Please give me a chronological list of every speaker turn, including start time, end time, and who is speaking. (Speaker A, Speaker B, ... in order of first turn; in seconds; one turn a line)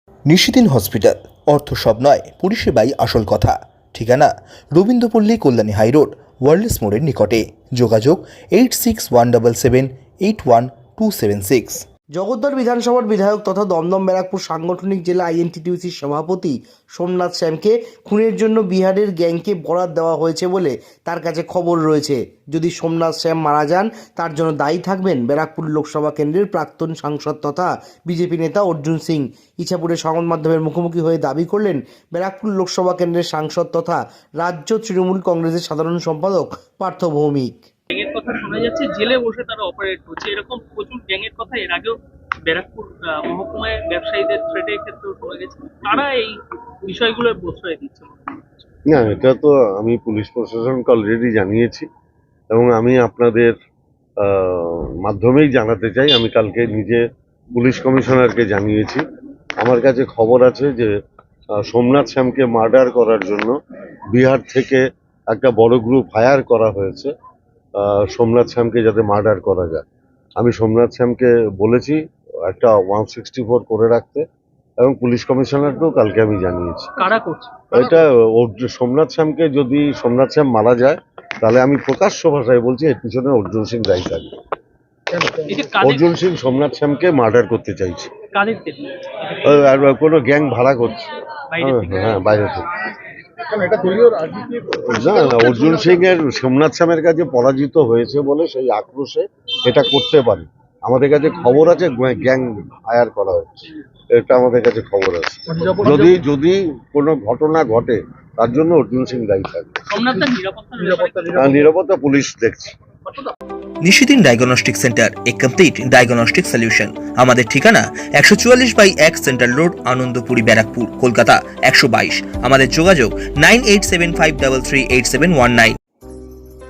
Speaker A: 0.3-11.8
Speaker B: 12.1-37.6
Speaker C: 37.9-48.4
Speaker D: 48.9-51.9
Speaker D: 52.5-53.5
Speaker D: 54.2-57.0
Speaker D: 57.5-59.0
Speaker D: 59.6-60.9
Speaker D: 61.6-63.5
Speaker D: 64.1-67.1
Speaker D: 67.8-69.8
Speaker D: 70.4-74.2
Speaker D: 74.8-76.9
Speaker C: 77.0-77.9
Speaker D: 77.7-84.4
Speaker C: 85.4-86.1
Speaker D: 85.8-88.1
Speaker C: 88.3-89.0
Speaker D: 89.4-91.1
Speaker C: 91.5-92.2
Speaker D: 91.6-92.7
Speaker D: 94.7-109.8
Speaker C: 109.9-111.5
Speaker D: 111.3-112.7
Speaker A: 113.8-125.8